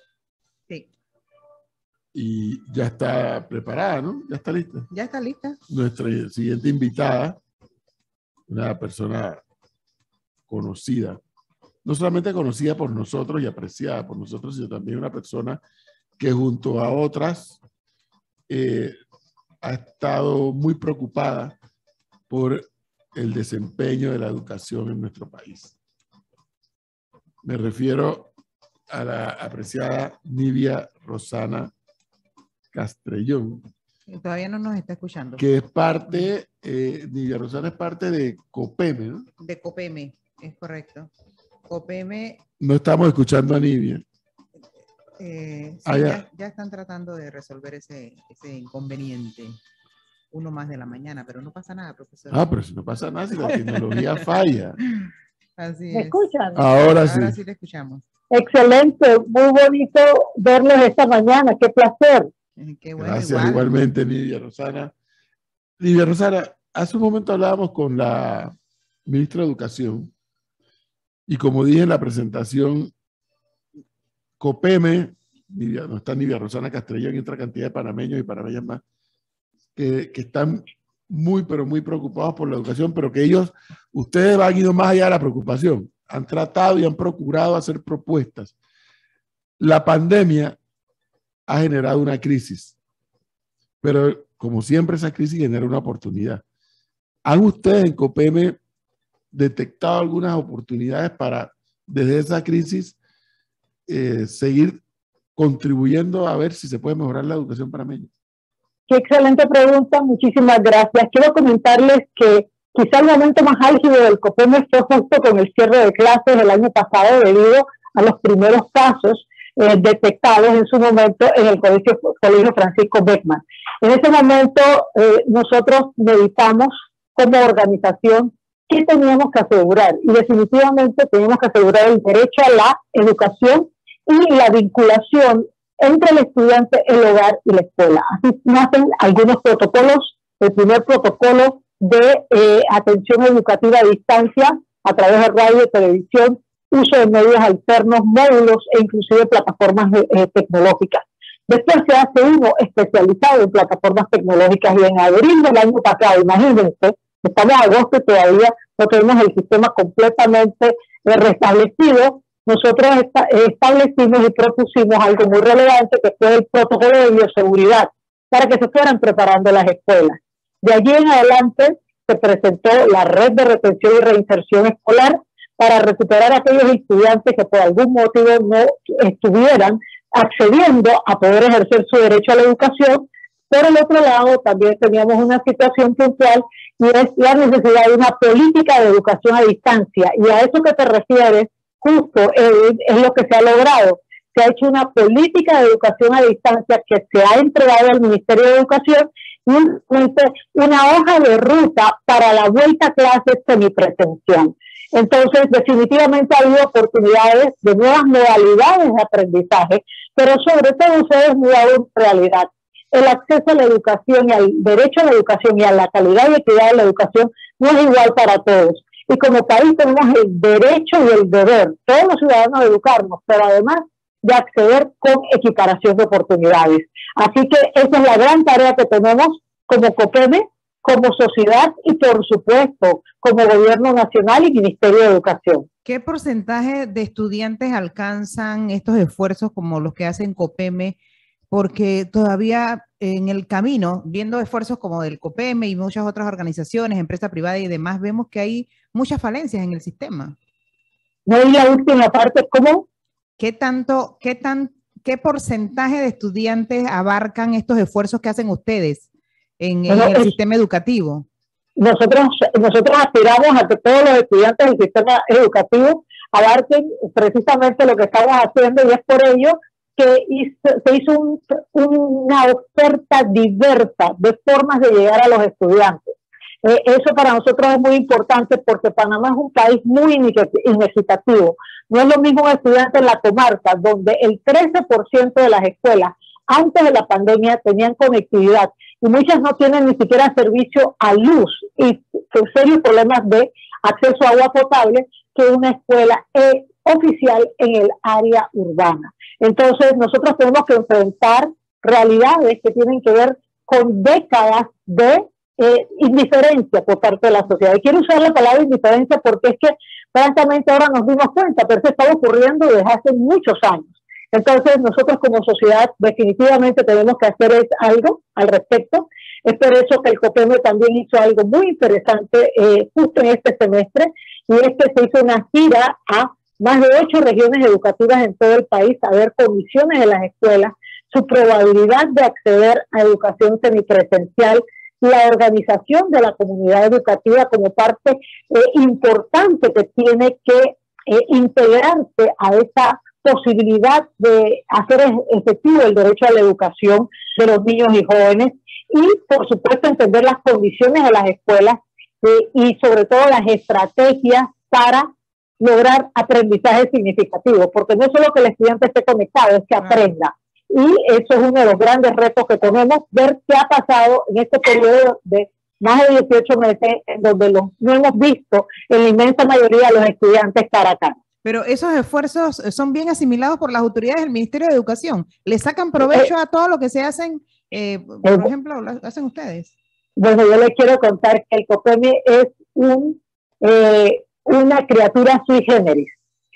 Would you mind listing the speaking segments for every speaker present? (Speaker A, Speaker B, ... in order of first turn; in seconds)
Speaker A: 2.1-4.9, 5.7-7.4, 8.5-9.4, 10.5-11.2, 11.8-15.6, 16.2-17.6, 18.5-19.0, 19.6-21.6, 22.3-25.8, 27.4-28.3, 28.9-31.7, 32.7-33.7, 35.4-39.3, 42.6-44.0, 45.9-46.2, 52.3-54.8, 56.5-57.4, 63.0-64.9, 65.8-68.5, 69.1-70.1, 71.3-72.9, 74.4-78.8, 79.8-88.5, 89.6-90.6, 91.5-92.8, 93.8-96.4, 97.2-98.6, 99.3-103.0, 103.9-104.8, 105.4-108.1
Speaker B: 4.9-5.6, 34.1-35.5, 39.4-41.1, 41.7-42.4, 45.2-49.6, 50.3-52.4, 53.4-54.2, 54.8-58.0, 62.6-63.6, 235.8-241.0, 241.5-250.4, 253.4-259.1, 259.6-261.3, 359.8-360.1, 371.4-379.7
Speaker C: 55.9-56.6, 58.3-62.3, 108.9-235.7, 251.3-252.9, 259.9-260.3, 261.8-355.1, 355.6-371.2, 376.0-376.3, 378.2-378.5, 380.2-386.1